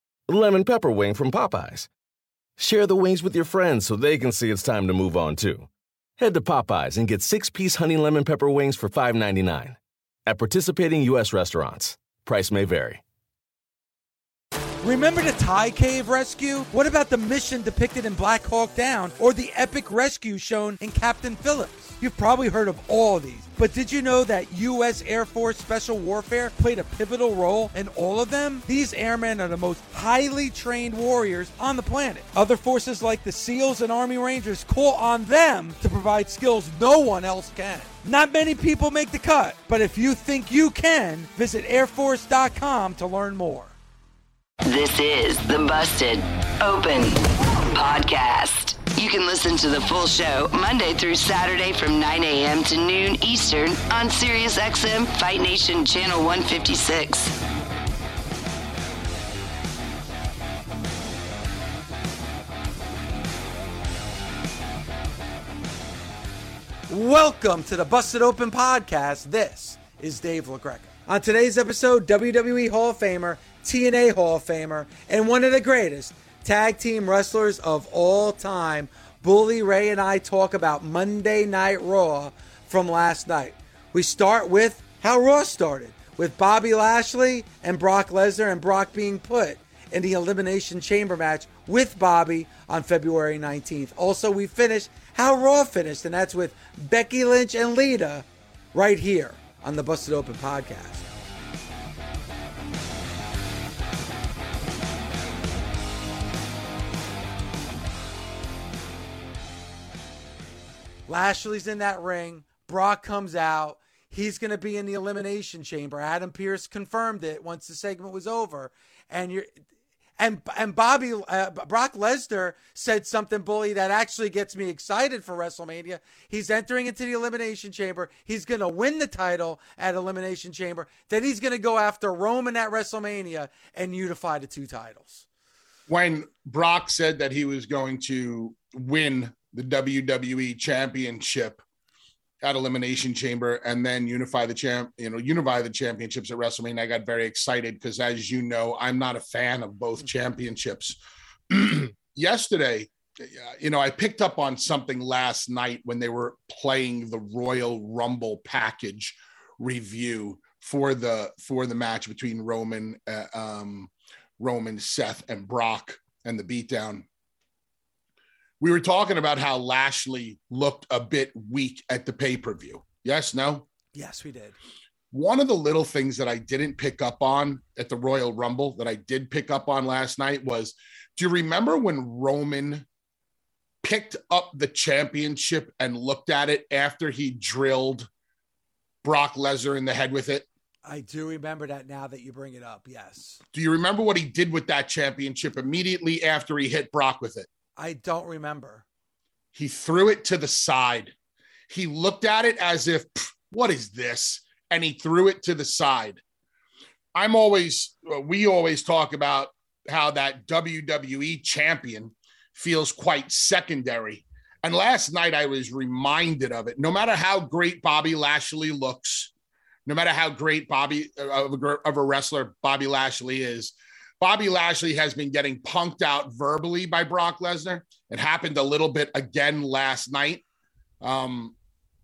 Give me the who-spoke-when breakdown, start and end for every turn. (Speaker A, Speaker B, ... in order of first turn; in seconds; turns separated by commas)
Speaker A: 0.3-1.9, Speaker A: 2.6-13.0, Speaker B: 14.8-43.7, Speaker C: 44.6-57.3, Speaker B: 66.9-101.0, Speaker B: 111.1-119.5, Speaker B: 120.2-135.2, Speaker D: 135.9-141.6, Speaker D: 142.4-151.0, Speaker D: 151.5-167.1, Speaker D: 168.6-173.7, Speaker B: 173.9-174.6, Speaker D: 175.1-182.8, Speaker D: 183.8-188.1, Speaker D: 189.0-190.5, Speaker B: 190.8-193.4, Speaker D: 193.5-197.5, Speaker B: 197.8-198.8, Speaker D: 199.6-201.1, Speaker D: 201.7-206.2, Speaker D: 207.2-219.3, Speaker D: 219.9-230.4, Speaker D: 231.0-231.5